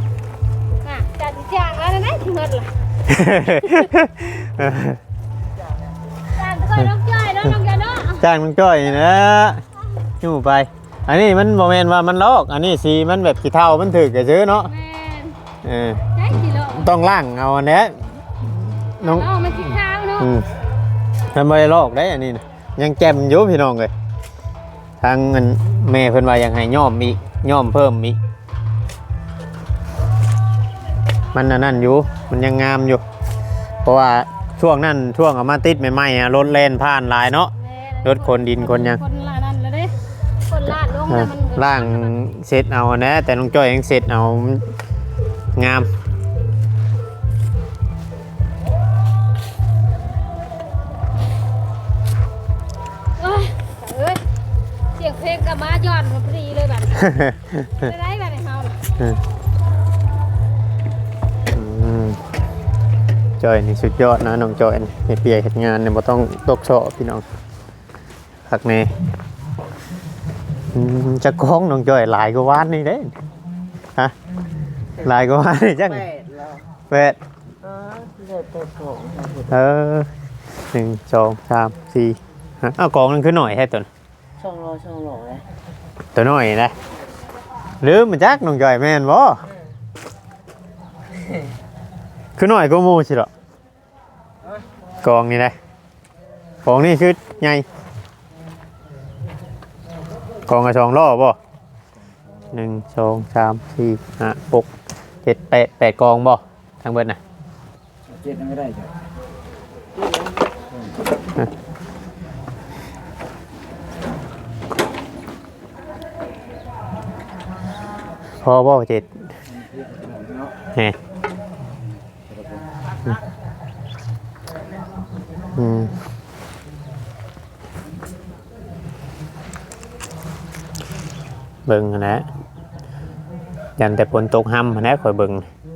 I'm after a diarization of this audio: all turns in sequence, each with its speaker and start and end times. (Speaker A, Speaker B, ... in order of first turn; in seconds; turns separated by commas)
Speaker A: 0.8-2.7, Speaker B: 3.0-5.0, Speaker A: 3.6-3.9, Speaker A: 6.3-8.3, Speaker B: 8.2-9.6, Speaker B: 10.2-14.7, Speaker A: 14.6-15.4, Speaker B: 15.6-16.0, Speaker A: 16.1-16.9, Speaker B: 16.7-19.3, Speaker A: 19.0-20.3, Speaker B: 20.2-20.5, Speaker B: 21.3-23.9, Speaker B: 25.0-28.2, Speaker B: 31.3-33.0, Speaker B: 33.8-37.5, Speaker A: 37.5-42.2, Speaker B: 38.0-39.0, Speaker B: 41.1-44.7, Speaker B: 45.5-45.9, Speaker A: 53.2-54.2, Speaker A: 54.9-58.8, Speaker B: 56.9-57.7, Speaker B: 61.5-62.2, Speaker B: 63.4-67.2, Speaker B: 68.5-68.9, Speaker B: 70.7-73.1, Speaker B: 75.0-76.1, Speaker C: 75.8-76.6, Speaker B: 76.9-77.2, Speaker C: 77.6-79.5, Speaker B: 79.5-80.1, Speaker B: 80.7-83.9, Speaker C: 84.4-85.4, Speaker B: 86.1-86.7, Speaker B: 87.8-89.4, Speaker B: 92.4-93.3, Speaker B: 95.0-95.5, Speaker B: 96.6-97.6, Speaker B: 100.5-101.4, Speaker C: 102.0-102.5, Speaker B: 102.5-104.7, Speaker B: 105.2-107.2, Speaker C: 108.1-109.0, Speaker C: 110.5-111.0, Speaker B: 118.4-119.1, Speaker C: 119.5-120.6, Speaker C: 122.2-122.7, Speaker B: 125.5-125.9, Speaker B: 131.7-132.3, Speaker B: 133.8-135.5